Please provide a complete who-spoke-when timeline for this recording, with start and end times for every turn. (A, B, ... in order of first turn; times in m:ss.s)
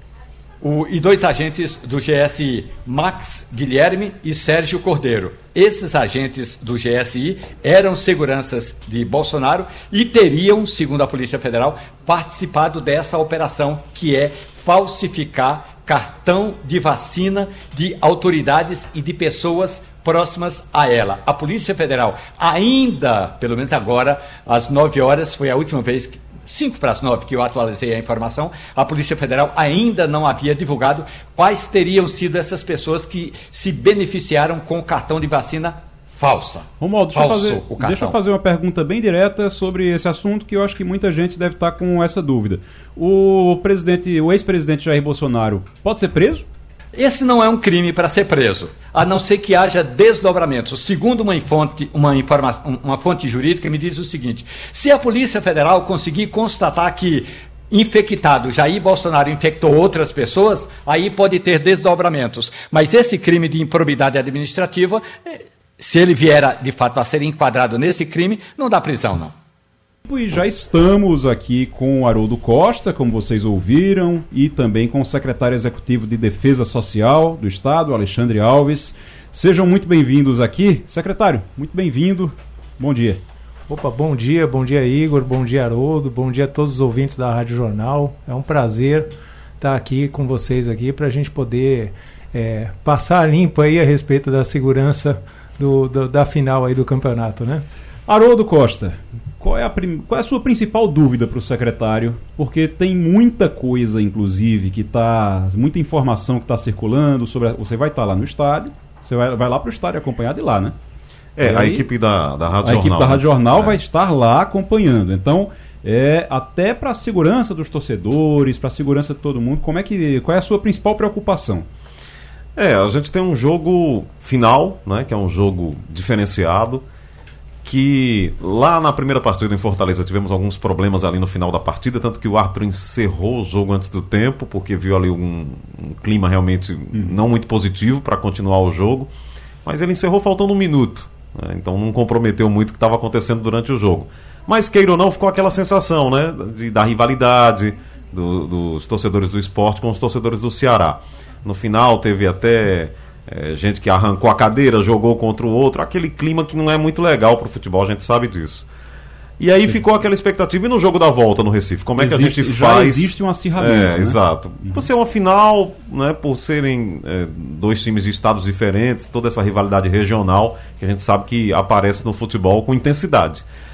0:00.6-0:38.2 A
0:36.8-0:46.5 B
0:46.9-1:09.3 A
1:10.1-1:23.2 B
1:23.7-1:37.6 C
1:38.1-1:50.8 B
1:51.4-1:53.8 D
1:51.4-1:51.9 B
1:52.6-2:01.7 B
2:02.6-2:06.8 D
2:07.6-2:19.1 D
2:19.6-2:38.7 D
2:39.4-2:53.4 D
2:42.0-2:44.9 B